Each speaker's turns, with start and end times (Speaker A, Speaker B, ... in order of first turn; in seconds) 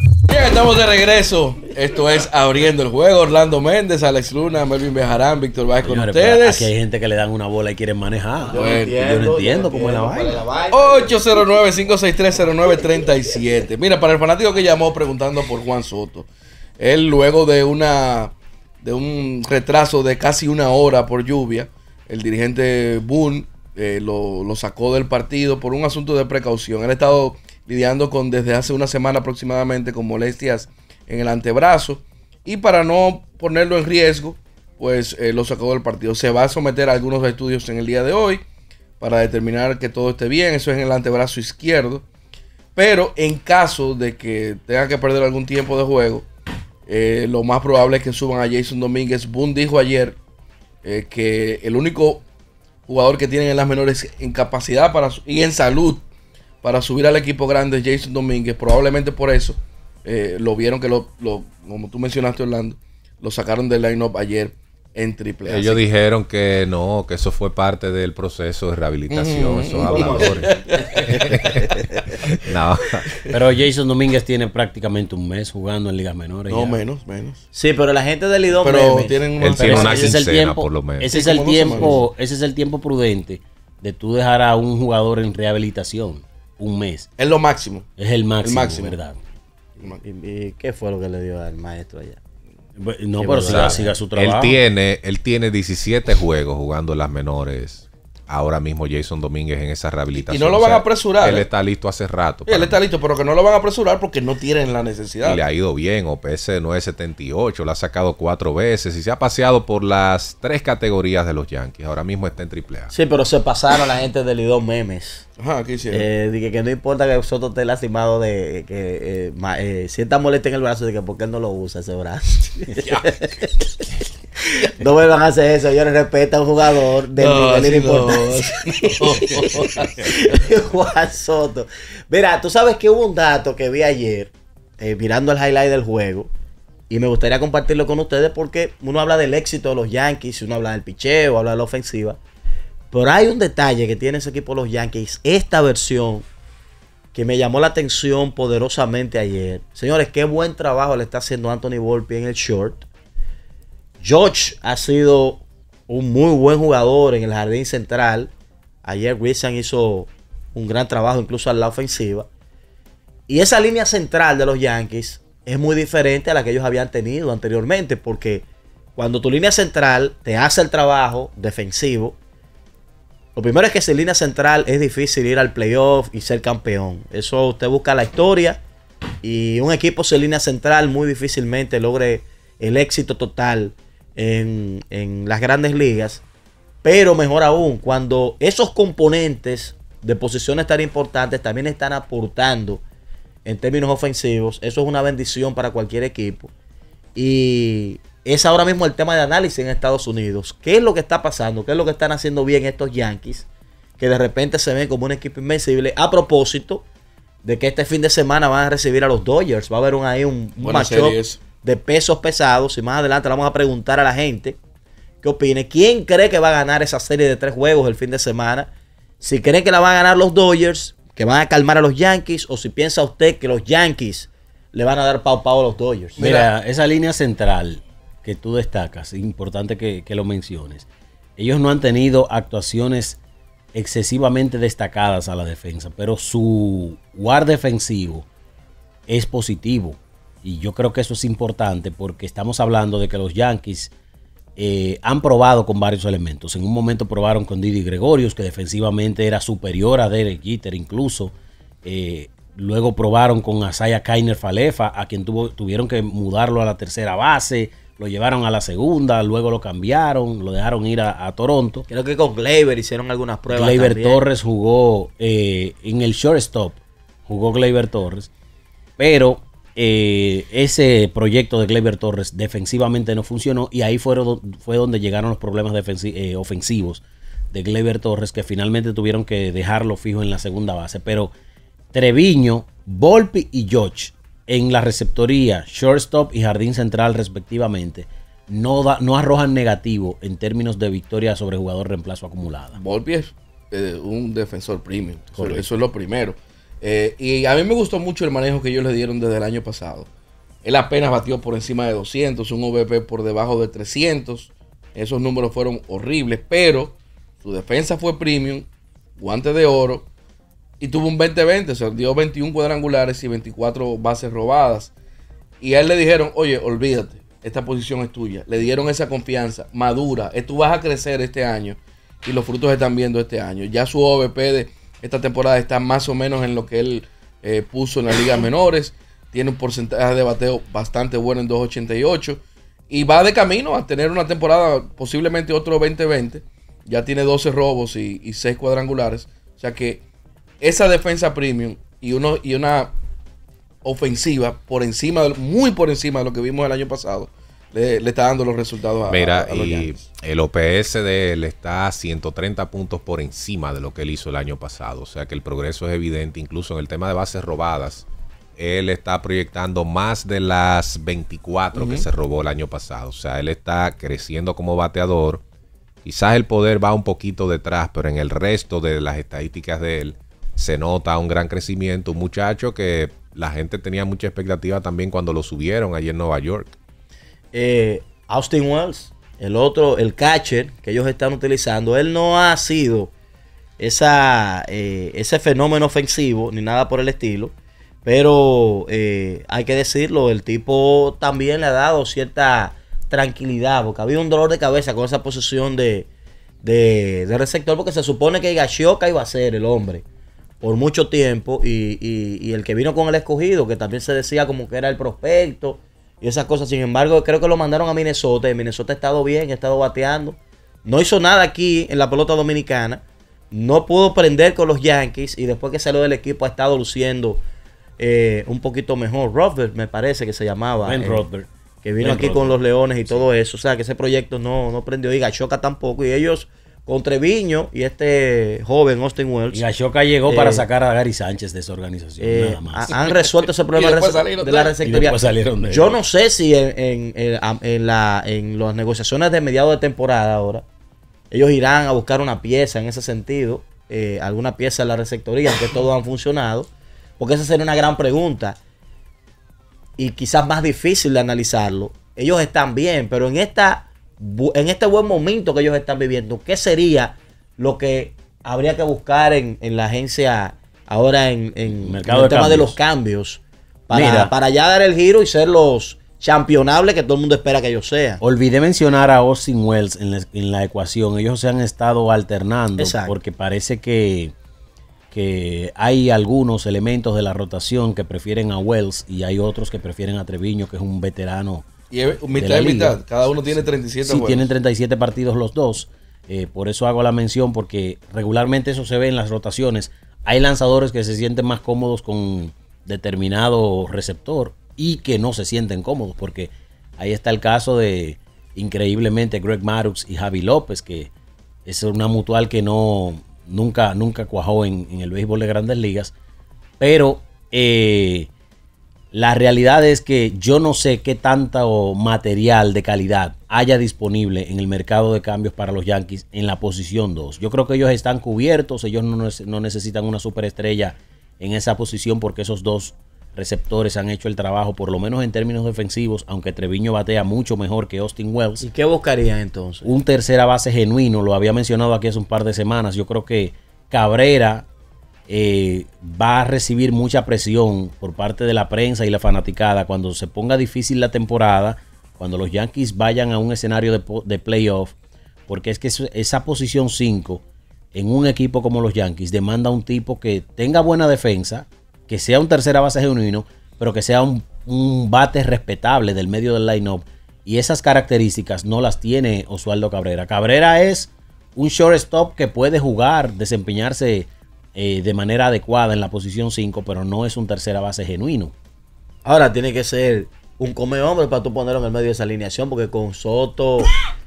Speaker A: 0.3-6.7, 8.5-9.0, 10.7-16.3, 16.8-38.4, 39.0-42.0, 42.7-46.3, 46.9-50.2, 50.8-52.2, 52.9-56.0, 56.6-65.8, 69.1-72.0, 76.5-77.4, 78.6-80.2, 81.0-82.0, 87.2-87.9, 88.4-89.0, 100.1-101.5, 102.5-105.4, 115.4-116.0, 127.2-130.0, 210.6-211.4, 226.2-226.5, 292.7-300.1, 300.6-310.1, 310.8-314.9, 315.6-340.0, 340.6-342.9, 343.8-350.0, 361.7-362.0, 433.7-434.7, 481.9-484.5
Speaker B: 5.8-10.4, 73.3-76.8, 79.6-87.1, 88.0-89.2, 92.8-94.6, 226.2-230.8, 231.4-233.2, 233.7-238.2, 239.1-243.9, 244.6-251.3, 251.8-261.9, 263.5-268.3, 269.0-281.3, 281.9-292.8, 295.3-295.8, 420.8-423.3, 429.5-432.9, 434.8-435.9, 461.7-462.7, 463.9-464.3, 468.2-474.3, 475.1-481.6, 482.3-501.1, 501.6-506.1, 506.8-508.3, 509.1-528.7, 529.8-534.6, 535.3-544.9, 545.5-568.5
Speaker C: 8.5-11.1, 69.8-70.4, 77.5-79.2, 89.8-92.2, 93.2-93.9, 112.9-115.2, 115.9-123.8, 124.6-136.3, 136.9-142.2, 142.9-146.2, 147.1-152.8, 154.0-158.3, 158.8-162.3, 163.3-172.2, 173.3-178.6, 179.2-186.2, 186.8-192.8, 193.4-196.5, 197.2-203.4, 204.0-206.8, 207.4-214.6, 215.2-218.7, 219.2-226.2, 261.9-264.2, 377.5-383.1, 383.8-387.5, 388.0-396.1, 396.6-400.0, 400.6-417.4, 418.0-421.2, 421.8-429.6, 430.3-430.6, 432.2-440.6, 441.3-448.6, 450.0-468.2, 472.8-473.1, 528.6-529.9, 569.2-573.9
Speaker D: 65.5-70.5, 71.1-71.7, 72.3-73.0, 79.4-81.1, 93.5-102.8, 105.2-112.9, 349.1-358.0, 358.6-365.4, 366.0-376.7